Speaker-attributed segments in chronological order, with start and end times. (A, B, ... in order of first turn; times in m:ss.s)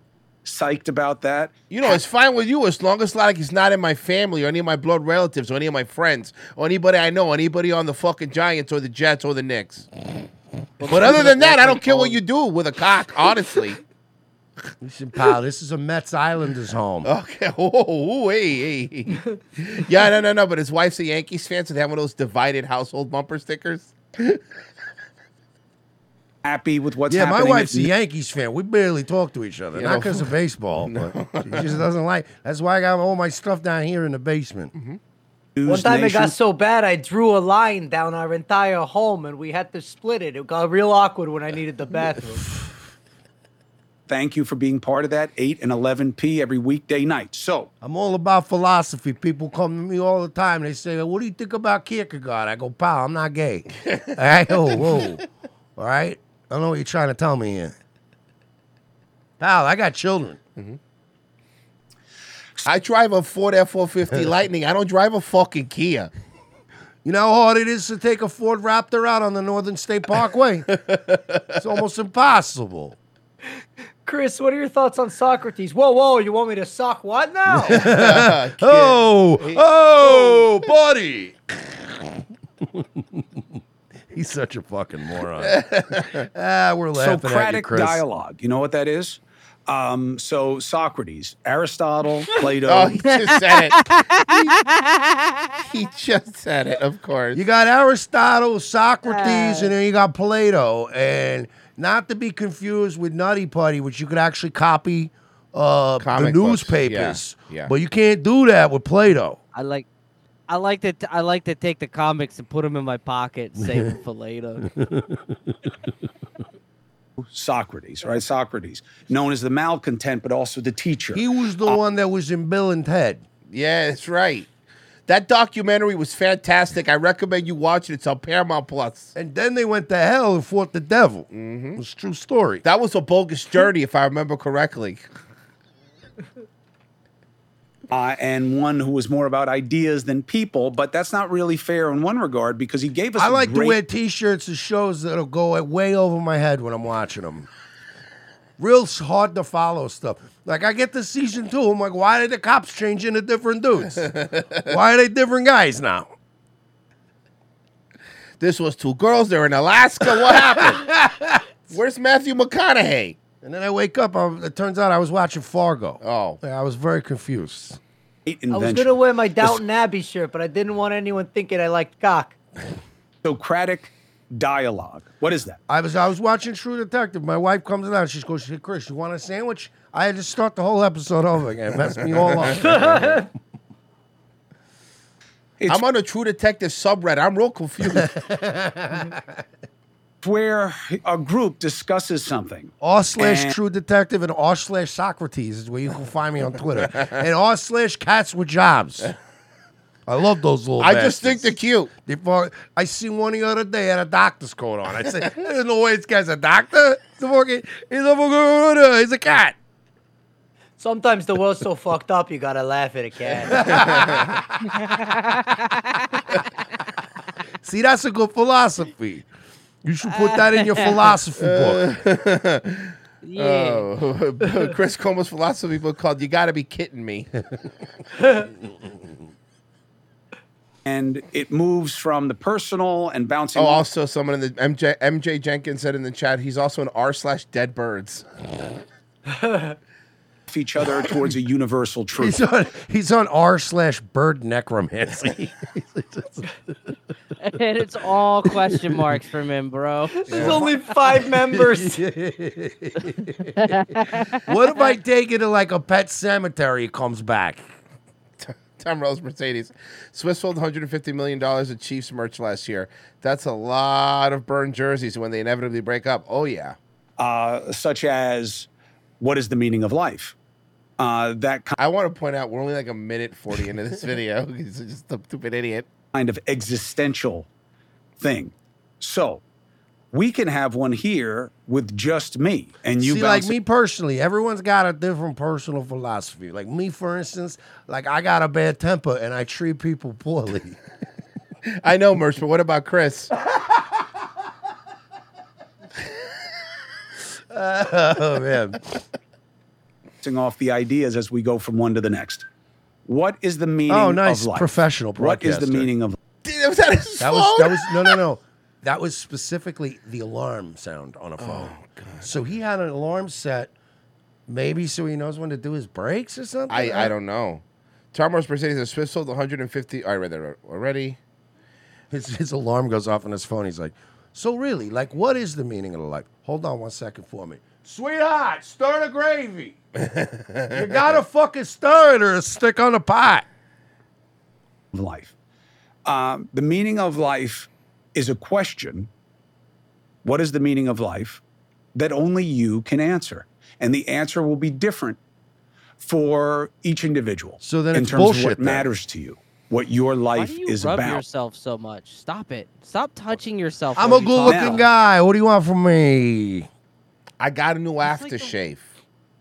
0:00.4-0:01.5 A
0:01.7-0:09.9 B
0:10.8-0:12.2 C
0:10.8-0:13.8 B
0:14.8-0:17.1 D
0:17.0-0:24.4 B
0:26.4-0:27.9 A
0:27.1-0:34.7 D
0:29.8-0:31.8 B
0:34.7-0:35.0 B
0:35.6-0:36.4 A
0:35.6-0:42.5 E
0:44.1-0:47.7 A
0:47.8-0:55.2 D
0:54.7-0:55.0 B
0:55.8-0:57.7 D
0:59.4-1:00.4 D
1:02.6-1:06.1 B
1:07.0-1:10.7 D
1:10.7-1:11.6 B
1:11.6-1:13.0 D
1:14.0-1:17.8 E
1:17.5-1:22.0 D
1:17.7-1:20.5 B
1:22.6-1:23.6 D
1:24.1-1:25.6 D
1:25.4-1:26.3 B
1:26.2-1:28.0 D
1:26.9-1:33.0 A
1:32.7-1:33.8 B
1:33.1-1:35.4 C
1:35.6-1:37.4 B
1:37.4-1:49.4 D
1:39.0-1:39.7 C
1:46.0-1:47.7 B
1:49.6-1:49.9 C
1:50.5-1:54.6 C
1:53.6-1:53.9 D
1:54.6-1:55.4 D
1:57.2-2:01.2 A
2:01.1-2:03.2 D
2:03.5-2:04.5 B
2:05.1-2:09.1 B
2:09.2-2:12.6 D
2:11.3-2:11.8 B
2:12.6-2:15.1 B
2:17.9-2:23.8 A
2:23.2-2:27.5 D
2:28.6-2:34.1 D
2:34.0-2:34.7 B
2:34.7-2:36.1 D
2:38.4-2:40.9 B
2:40.1-2:41.4 D
2:41.7-2:43.2 B
2:43.4-2:47.8 D
2:46.0-2:46.4 B
2:48.3-2:49.6 A
2:48.5-2:52.4 E
2:53.2-2:55.6 A
2:55.7-3:03.3 D
3:02.9-3:03.2 E
3:05.7-3:08.1 B
3:07.9-3:09.4 D
3:10.2-3:13.5 A
3:12.8-3:19.1 D
3:20.1-3:21.5 D
3:20.8-3:21.9 B
3:22.0-3:29.6 D
3:30.8-3:33.7 E
3:33.5-3:34.3 D
3:33.7-3:34.4 B
3:35.0-3:35.6 C
3:37.6-3:39.3 D
3:39.8-3:41.9 D
3:40.1-3:41.0 C
3:41.4-3:47.3 B
3:43.2-3:43.9 C
3:50.8-3:53.8 A
3:53.6-3:58.2 B
3:59.4-3:59.7 E
4:00.5-4:02.4 A
4:02.2-4:06.7 D
4:07.4-4:10.4 C
4:08.6-4:09.0 D
4:10.3-4:10.7 B
4:10.3-4:12.0 E
4:11.5-4:17.7 D
4:13.6-4:14.5 C
4:18.4-4:26.8 B
4:27.2-4:28.7 A
4:29.2-4:30.4 A
4:31.0-4:31.8 A
4:31.8-4:35.9 B
4:36.1-4:37.5 A
4:38.2-4:39.4 A
4:40.1-4:43.6 A
4:43.0-4:50.8 D
4:51.8-4:53.3 B
4:57.5-4:58.8 D
5:00.2-5:02.4 A
5:03.1-5:06.2 A
5:03.9-5:05.9 D
5:06.4-5:08.2 B
5:07.2-5:13.7 D
5:11.4-5:12.3 B
5:14.5-5:17.1 D
5:16.7-5:17.6 B
5:18.1-5:21.2 B
5:22.1-5:29.8 D
5:30.0-5:31.2 B
5:30.7-5:33.5 D
5:34.9-5:35.3 A
5:36.0-5:39.1 A
5:40.2-5:41.4 A
5:42.0-5:45.2 A
5:46.0-5:51.3 A
5:47.6-5:48.9 D
5:50.4-5:54.9 C
5:54.0-5:56.7 D
5:54.4-5:54.8 A
5:57.4-5:58.9 B
5:58.0-5:58.6 C